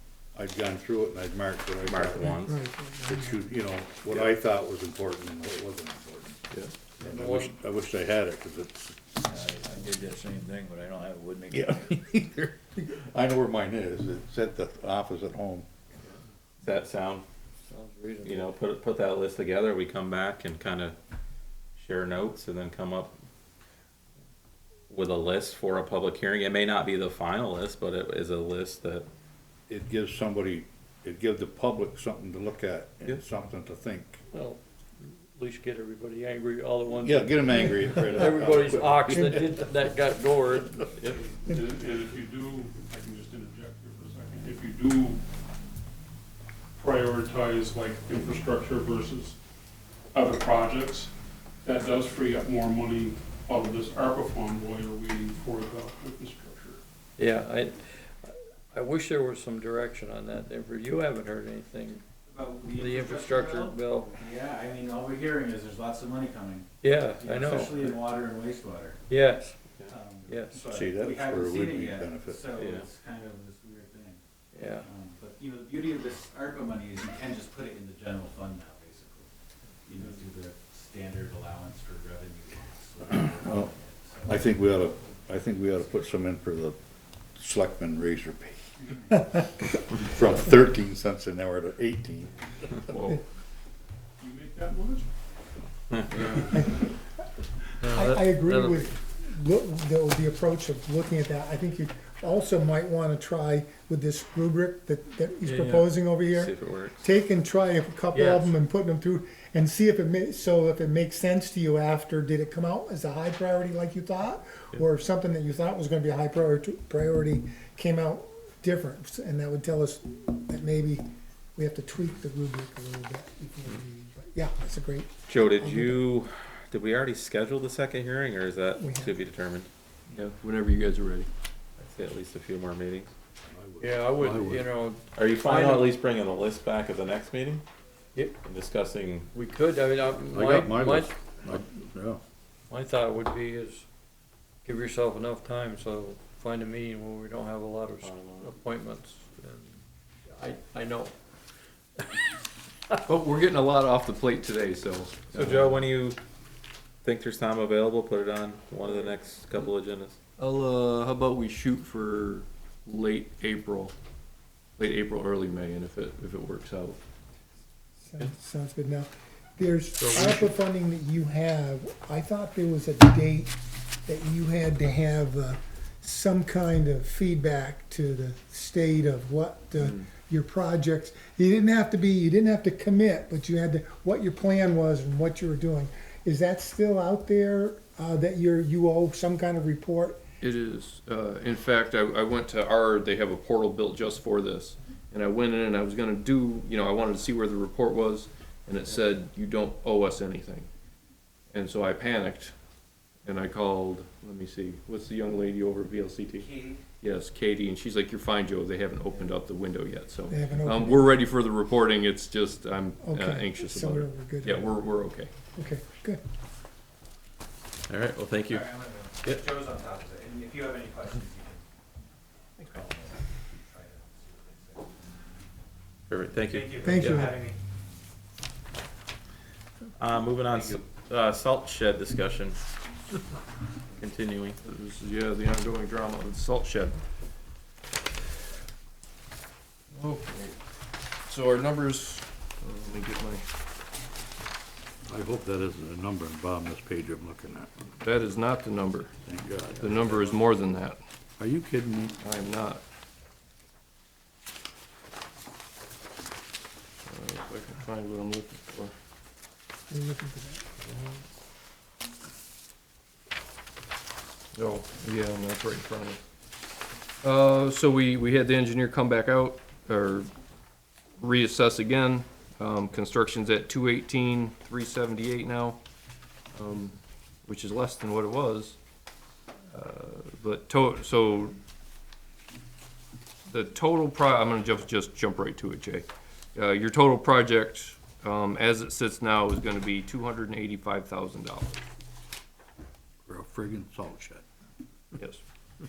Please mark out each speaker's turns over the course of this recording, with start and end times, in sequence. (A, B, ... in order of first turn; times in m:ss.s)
0:00.4-0:02.4 A
0:01.8-0:02.5 B
0:02.3-0:03.4 C
0:03.0-0:06.4 A
0:07.0-0:07.6 D
0:07.0-0:09.5 A
0:09.3-0:11.6 E
0:11.5-0:15.7 A
0:16.6-0:17.3 B
0:17.7-0:18.5 D
0:18.2-0:21.0 B
0:21.8-0:23.2 B
0:24.9-0:29.1 B
0:29.7-0:34.2 A
0:34.3-0:41.2 D
0:36.9-0:39.6 A
0:41.3-0:45.2 F
0:46.8-0:49.4 F
0:50.1-0:51.1 F
0:51.6-0:56.8 F
0:57.2-1:02.0 D
1:02.3-1:09.0 G
1:02.7-1:04.2 D
1:06.8-1:08.0 D
1:09.1-1:09.5 D
1:09.9-1:14.2 G
1:10.3-1:10.6 D
1:10.6-1:12.5 A
1:12.6-1:12.9 B
1:14.5-1:14.9 D
1:14.8-1:19.3 G
1:19.8-1:24.9 G
1:23.2-1:23.7 A
1:24.2-1:26.8 A
1:27.4-1:28.7 A
1:29.9-1:32.4 A
1:32.9-1:33.2 H
1:34.2-1:35.1 F
1:36.5-1:36.9 C
1:37.8-1:39.0 D
1:37.9-2:01.0 C
1:45.4-1:45.9 D
1:46.3-1:47.1 B
1:48.1-1:48.5 D
2:01.6-2:06.0 C
2:05.3-2:09.7 B
2:08.7-2:09.2 C
2:10.1-2:11.3 H
2:11.8-2:13.1 B
2:13.5-2:14.7 A
2:13.8-2:15.9 D
2:15.1-2:17.6 B
2:18.4-2:19.3 B
2:19.3-2:21.1 D
2:20.3-2:22.2 A
2:22.7-2:23.9 D
2:24.6-2:31.2 D
2:28.0-2:28.5 B
2:33.0-2:35.4 H
2:35.3-2:36.2 B
2:37.0-2:40.2 B
2:40.4-2:43.9 H
2:44.8-2:47.0 H
2:48.0-3:10.2 C
2:50.0-2:50.5 H
2:59.8-3:00.0 H
3:10.4-3:20.7 H
3:21.5-3:22.5 H
3:23.2-3:35.3 H
3:26.4-3:26.8 G
3:30.3-3:31.2 C
3:33.0-3:34.8 C
3:35.6-3:36.2 C
3:37.9-3:39.5 B
3:38.5-3:41.6 G
3:42.6-3:45.0 G
3:46.1-3:47.2 B
3:46.5-3:47.6 G
3:46.8-3:47.4 C
3:50.0-3:52.6 B
3:54.0-3:54.6 B
3:54.6-3:57.0 H
3:59.9-4:00.6 H
4:01.2-4:03.4 H
4:05.1-4:07.9 A
4:08.0-4:09.1 H
4:09.3-4:10.4 A
4:09.7-4:11.0 H
4:11.4-4:12.2 A
4:12.2-4:12.8 H
4:17.1-4:18.9 H
4:19.9-4:20.6 C
4:20.8-4:21.2 H
4:24.5-4:26.2 H
4:27.2-4:30.3 H
4:31.2-4:35.8 H
4:36.5-4:38.8 H
4:39.7-4:41.6 H
4:43.5-4:51.8 H
4:53.3-4:54.4 A
4:55.2-4:55.4 H